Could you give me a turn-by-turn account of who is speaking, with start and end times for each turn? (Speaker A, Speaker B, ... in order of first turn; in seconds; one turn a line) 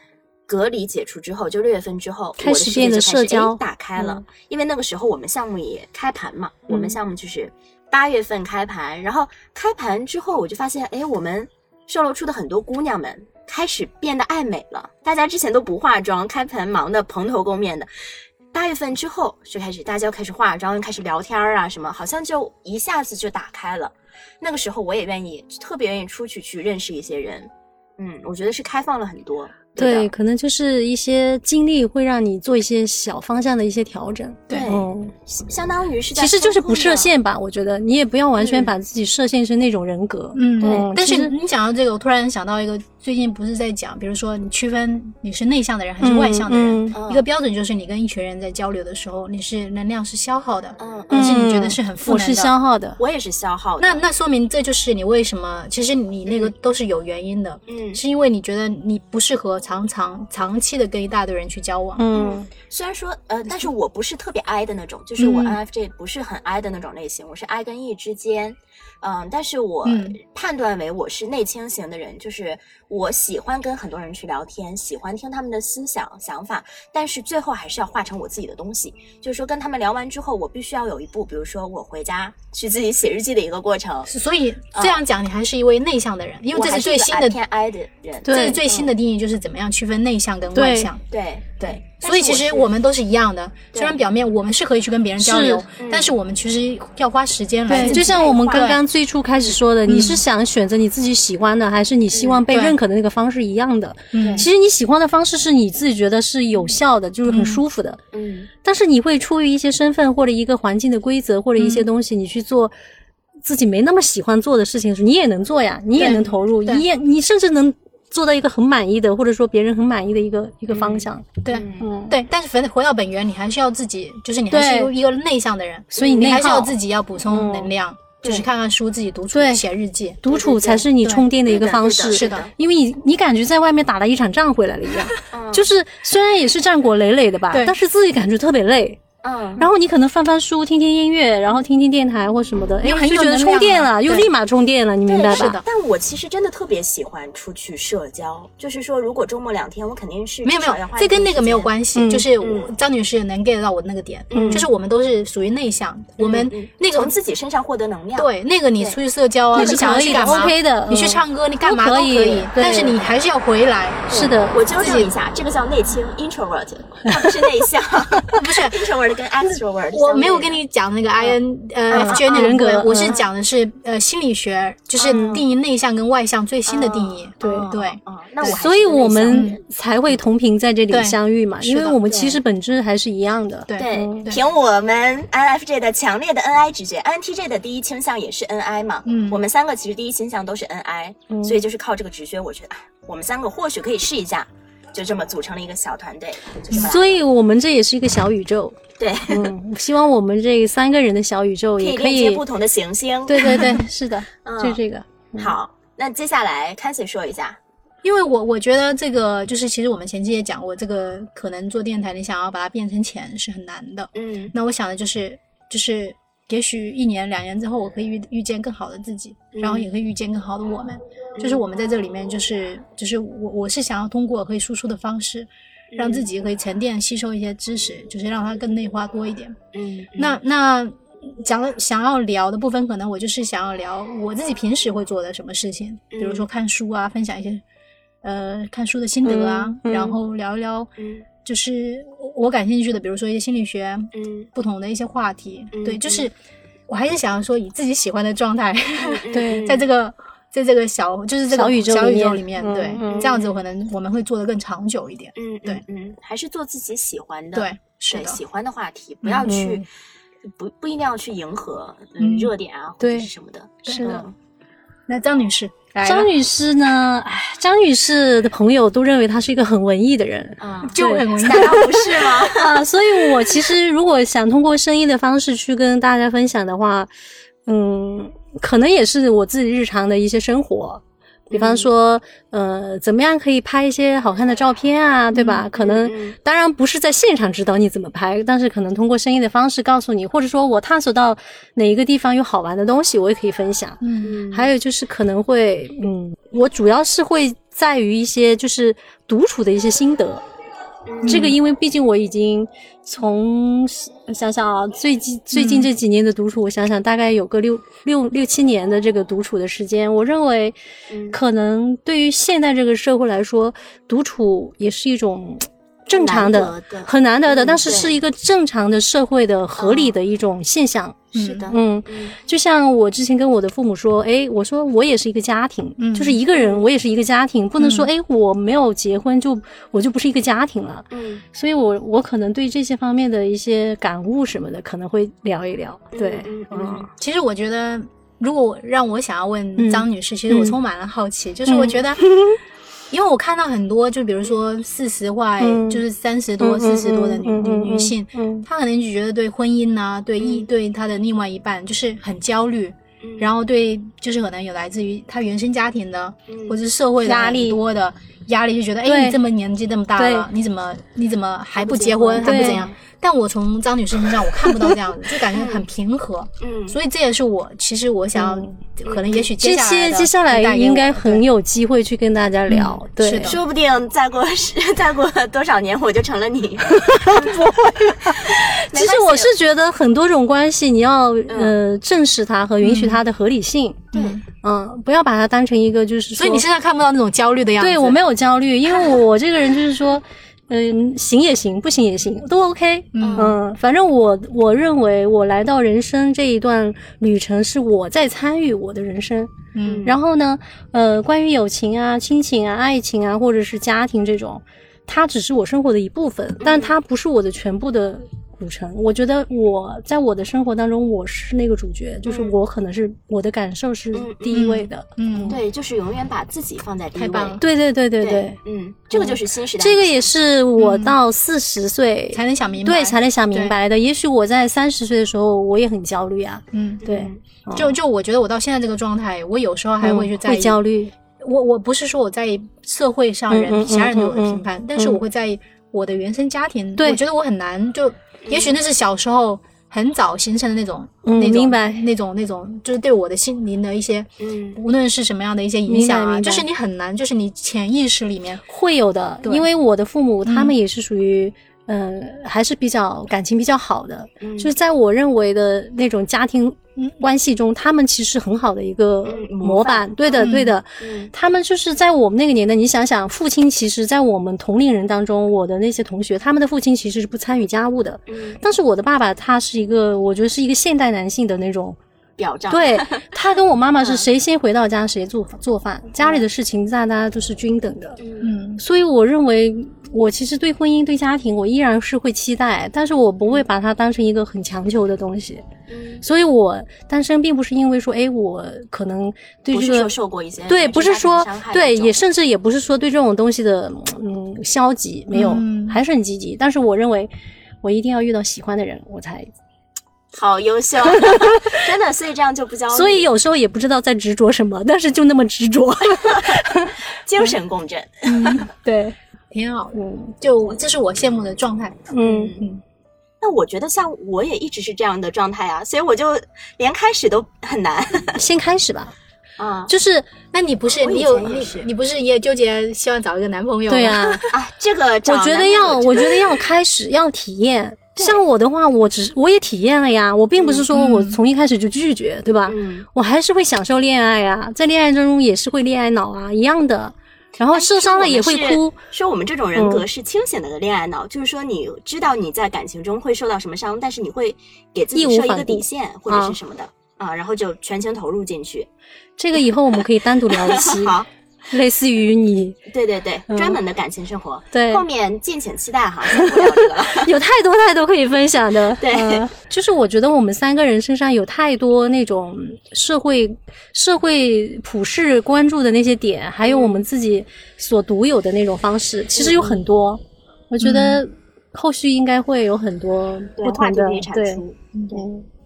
Speaker A: 0.5-30.1
Speaker B: 2.4-4.2
Speaker B: 29.8-35.1
Speaker C: 34.5-34.8
Speaker A: 34.5-37.1
Speaker B: 36.1-41.3
Speaker A: 38.4-38.7
Speaker C: 40.4-52.5
Speaker A: 40.6-40.9
Speaker B: 46.0-47.0
Speaker A: 46.9-47.2
Speaker A: 50.8-51.4
Speaker B: 51.1-53.0
Speaker A: 53.0-54.0
Speaker C: 53.8-62.0
Speaker A: 56.3-56.5
Speaker A: 57.7-58.0
Speaker B: 62.0-62.5
Speaker A: 62.1-84.1
Speaker C: 65.2-65.6
Speaker C: 69.8-70.2
Speaker C: 84.1-87.4
Speaker A: 84.7-85.0
Speaker A: 86.5-88.9
Speaker B: 88.2-88.6
Speaker C: 88.3-91.0
Speaker B: 90.5-90.9
Speaker A: 91.1-92.7
Speaker C: 91.6-98.8
Speaker A: 93.7-94.0
Speaker B: 95.2-95.7
Speaker A: 95.8-96.1
Speaker B: 97.7-108.0
Speaker A: 97.7-98.8
Speaker C: 99.9-100.2
Speaker A: 102.1-102.4
Speaker C: 102.5-102.8
Speaker C: 104.1-104.5
Speaker A: 104.2-104.5
Speaker C: 107.3-107.6
Speaker A: 108.1-108.5
Speaker B: 108.6-112.7
Speaker C: 111.6-111.9
Speaker B: 113.4-121.3
Speaker C: 116.0-116.8
Speaker A: 120.7-121.9
Speaker C: 121.4-130.3
Speaker B: 121.8-122.2
Speaker B: 124.5-124.9
Speaker B: 125.9-126.8
Speaker B: 127.3-127.7
Speaker A: 128.2-128.5
Speaker B: 129.3-129.6
Speaker B: 130.2-139.0
Speaker A: 130.3-130.8
Speaker C: 130.9-131.3
Speaker A: 131.5-132.5
Speaker C: 132.1-132.5
Speaker A: 135.3-135.7
Speaker C: 137.5-137.8
Speaker A: 139.2-139.7
Speaker B: 139.6-145.6
Speaker C: 142.8-144.3
Speaker A: 145.1-151.7
Speaker C: 145.3-145.6
Speaker C: 150.4-157.1
Speaker B: 151.9-152.3
Speaker A: 152.4-152.7
Speaker A: 154.3-154.7
Speaker B: 154.3-154.6
Speaker A: 156.2-159.0
Speaker C: 158.2-164.2
Speaker B: 159.5-163.0
Speaker A: 159.6-160.5
Speaker A: 164.1-170.6
Speaker B: 164.1-164.6
Speaker C: 164.8-165.1
Speaker C: 168.3-168.9
Speaker C: 169.9-178.6
Speaker A: 171.9-173.3
Speaker B: 171.9-173.1
Speaker A: 175.0-175.4
Speaker B: 175.1-175.4
Speaker A: 176.7-179.6
Speaker B: 177.4-177.7
Speaker B: 178.4-184.3
Speaker C: 179.3-179.6
Speaker C: 180.9-182.1
Speaker A: 182.1-182.4
Speaker C: 183.7-184.4
Speaker A: 183.8-197.2
Speaker C: 189.1-189.4
Speaker B: 191.3-191.6
Speaker B: 196.7-202.4
Speaker A: 199.0-199.5
Speaker A: 201.8-203.8
Speaker B: 203.3-205.5
Speaker C: 203.4-203.8
Speaker A: 204.4-204.8
Speaker A: 205.4-207.6
Speaker C: 208.0-229.6
Speaker A: 214.2-214.5
Speaker A: 219.5-219.9
Speaker A: 225.9-226.3
Speaker A: 229.7-230.4
Speaker C: 230.2-237.6
Speaker A: 236.1-236.4
Speaker C: 238.2-240.9
Speaker B: 239.3-240.2
Speaker A: 239.3-239.7
Speaker A: 241.0-241.3
Speaker C: 241.4-246.3
Speaker A: 244.1-244.5
Speaker A: 245.7-246.3
Speaker C: 246.9-255.8
Speaker A: 249.0-249.8
Speaker B: 249.3-249.7
Speaker B: 251.5-253.3
Speaker A: 253.1-253.5
Speaker A: 255.4-259.9
Speaker C: 257.5-258.4
Speaker C: 259.2-259.6
Speaker B: 259.4-259.8
Speaker A: 260.4-264.3
Speaker C: 262.2-262.5
Speaker B: 263.0-263.3
Speaker C: 263.9-264.1
Speaker B: 263.9-264.3
Speaker C: 265.1-266.3
Speaker B: 266.0-277.1
Speaker A: 270.6-272.9
Speaker C: 270.9-272.3
Speaker B: 277.6-300.4
Speaker A: 281.5-281.9
Speaker C: 285.4-285.6
Speaker A: 285.7-286.4
Speaker C: 294.0-294.4
Speaker A: 294.2-294.7
Speaker A: 301.1-301.5
Speaker C: 301.2-301.6
Speaker B: 301.3-310.8
Speaker C: 305.5-305.9
Speaker A: 311.1-311.4
Speaker B: 311.3-337.1
Speaker A: 316.1-318.2
Speaker A: 319.8-320.1
Speaker C: 321.3-321.7
Speaker A: 321.3-322.4
Speaker C: 326.0-326.4
Speaker A: 326.5-326.9
Speaker C: 327.8-328.1
Speaker A: 331.1-331.4
Speaker A: 336.1-337.1
Speaker C: 336.8-342.2
Speaker B: 339.8-340.8
Speaker B: 341.6-342.6
Speaker C: 343.1-371.4
Speaker B: 345.6-346.0
Speaker B: 346.6-348.6
Speaker A: 350.4-350.7
Speaker A: 353.2-353.5
Speaker A: 356.5-356.8
Speaker B: 357.2-357.8
Speaker B: 359.1-359.4
Speaker B: 360.1-360.5
Speaker A: 361.8-362.9
Speaker B: 362.4-362.8
Speaker A: 365.5-365.9
Speaker A: 366.6-367.0
Speaker B: 368.4-368.8
Speaker A: 369.1-369.5
Speaker B: 369.6-373.6
Speaker C: 372.7-373.6
Speaker A: 373.4-379.5
Speaker B: 376.9-384.1
Speaker A: 381.5-381.7
Speaker C: 382.8-383.2
Speaker C: 384.1-384.4
Speaker A: 384.1-384.4
Speaker B: 384.6-386.6
Speaker C: 386.4-388.2
Speaker B: 387.8-415.6
Speaker C: 393.1-393.6
Speaker A: 393.2-393.6
Speaker C: 399.7-400.1
Speaker A: 399.8-400.1
Speaker A: 406.6-406.9
Speaker A: 412.2-412.6
Speaker A: 414.1-414.8
Speaker C: 414.5-415.6
Speaker A: 415.5-417.6
Speaker C: 417.1-417.6
Speaker B: 417.6-418.6
Speaker A: 418.2-420.3
Speaker B: 419.1-427.9
Speaker C: 420.8-421.2
Speaker C: 422.3-423.8
Speaker C: 426.7-427.1
Speaker A: 427.0-427.4
Speaker C: 427.8-430.8
Speaker B: 430.0-431.1
Speaker C: 431.4-448.6
Speaker B: 433.5-435.2
Speaker A: 438.4-438.8
Speaker B: 441.2-442.0
Speaker A: 444.4-444.8
Speaker B: 445.9-446.6
Speaker B: 448.7-472.0
Speaker C: 450.4-450.7
Speaker A: 454.4-454.7
Speaker A: 459.3-461.3
Speaker C: 460.4-460.7
Speaker A: 468.3-468.6
Speaker A: 472.4-473.3
Speaker B: 472.7-478.2
Speaker A: 474.0-474.3
Speaker A: 476.2-476.4
Speaker A: 478.2-478.5
Speaker C: 478.4-478.8
Speaker B: 478.8-485.6
Speaker A: 485.9-486.2
Speaker B: 486.2-490.1
Speaker A: 489.7-492.2
Speaker B: 490.7-497.3
Speaker C: 495.3-496.0
Speaker B: 497.8-499.5
Speaker A: 500.3-503.3
Speaker B: 501.1-501.8
Speaker B: 502.9-507.0
Speaker A: 506.2-508.6
Speaker C: 508.3-508.7
Speaker B: 508.3-509.1
Speaker C: 509.5-512.8
Speaker B: 509.9-510.3
Speaker B: 512.1-512.6
Speaker A: 512.2-512.6
Speaker A: 513.4-518.4
Speaker B: 518.4-519.1
Speaker A: 519.6-519.9
Speaker B: 519.9-520.3
Speaker C: 520.5-524.4
Speaker A: 521.0-521.9
Speaker B: 523.9-524.5
Speaker A: 524.5-526.7
Speaker B: 525.3-539.0
Speaker A: 528.2-528.4
Speaker A: 530.5-530.9
Speaker C: 530.9-531.4
Speaker A: 532.7-533.1
Speaker A: 537.7-548.9
Speaker B: 539.7-540.0
Speaker B: 545.1-546.5
Speaker B: 549.4-551.2
Speaker A: 550.5-551.3
Speaker B: 551.7-552.8
Speaker A: 552.9-557.3
Speaker B: 553.5-553.8
Speaker B: 554.7-555.0
Speaker B: 556.3-574.6
Speaker A: 559.0-559.5
Speaker A: 566.6-567.0
Speaker A: 569.4-569.8
Speaker C: 570.8-571.2
Speaker A: 573.6-575.2
Speaker B: 575.1-575.5